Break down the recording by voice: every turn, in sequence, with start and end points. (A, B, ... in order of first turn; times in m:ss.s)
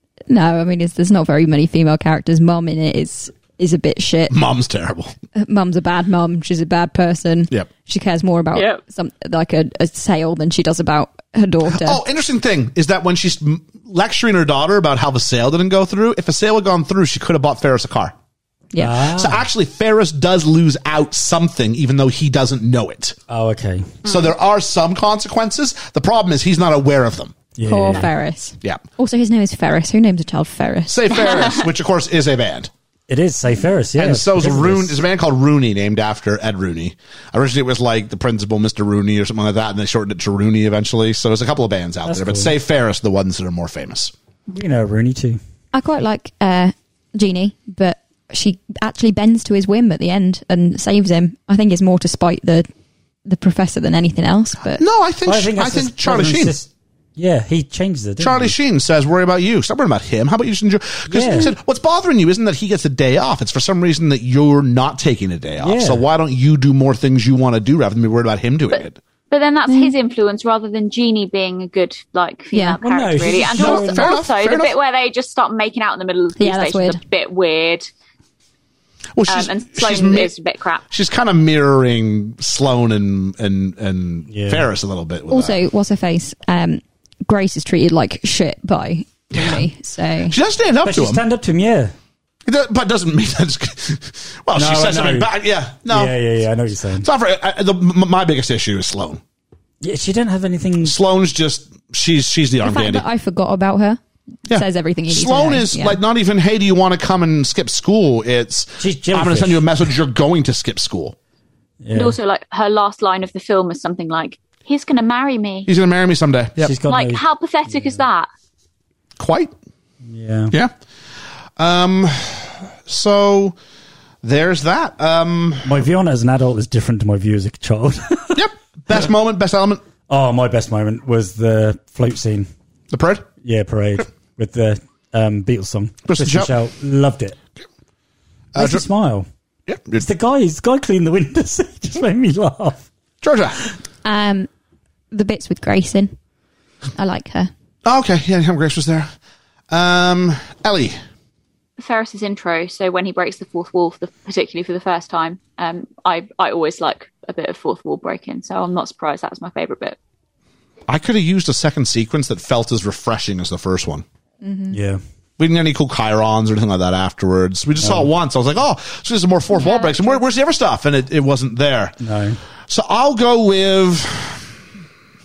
0:00.3-0:04.4 A
0:04.3-0:05.1 B
0:05.4-0:12.0 A
0:08.5-0:08.8 C
0:11.7-0:18.2 B
0:18.8-0:19.4 D
0:19.1-0:23.2 B
0:23.3-0:24.0 D
0:24.0-0:27.4 B
0:24.0-0:24.3 C
0:27.6-0:28.1 D
0:27.6-0:31.2 A
0:30.9-0:32.7 B
0:33.1-0:35.0 D
0:34.0-0:44.1 B
0:42.1-0:42.5 D
0:44.5-0:45.4 D
0:45.7-0:52.7 A
0:53.2-0:54.8 A
0:54.8-0:56.6 B
0:55.3-0:58.5 D
0:58.2-1:09.0 B
1:01.1-1:01.5 D
1:05.6-1:06.0 D
1:08.7-1:17.9 C
1:12.5-1:12.8 A
1:12.8-1:14.2 D
1:13.5-1:14.7 B
1:16.4-1:17.0 A
1:19.2-1:20.3 B
1:19.3-1:20.8 C
1:20.9-1:25.6 B
1:24.3-1:24.7 D
1:25.3-1:30.4 A
1:29.3-1:29.7 B
1:30.3-1:31.2 B
1:30.8-1:31.9 D
1:32.4-1:36.2 B
1:34.6-1:35.3 D
1:35.9-1:37.1 D
1:37.0-1:39.2 B
1:39.8-1:41.0 D
1:40.8-1:43.0 B
1:42.6-1:46.0 A
1:44.5-1:51.2 B
1:48.8-1:49.7 D
1:51.8-1:52.2 D
1:51.9-1:55.7 C
1:55.6-1:56.7 B
1:56.6-1:58.0 D
1:56.9-1:58.3 C
1:59.2-1:59.5 B
2:00.0-2:00.6 D
2:01.6-2:03.6 B
2:04.2-2:05.7 B
2:05.6-2:08.4 D
2:08.4-2:09.8 B
2:10.1-2:12.5 D
2:12.9-2:13.3 B
2:13.4-2:17.4 D
2:16.1-2:16.5 B
2:18.5-2:18.8 B
2:18.6-2:19.3 D
2:19.7-2:20.1 B
2:20.0-2:22.9 D
2:23.2-2:23.6 B
2:24.0-2:24.5 A
2:25.1-2:26.2 A
2:27.0-2:27.5 A
2:27.8-2:29.1 B
2:29.7-2:31.0 B
2:31.8-2:40.0 C
2:40.9-2:44.0 B
2:44.4-2:44.8 A
2:44.7-2:45.0 D
2:45.4-2:52.0 B
2:47.8-2:48.1 D
2:49.6-2:50.1 A
2:52.0-2:52.4 D
2:52.7-2:54.4 B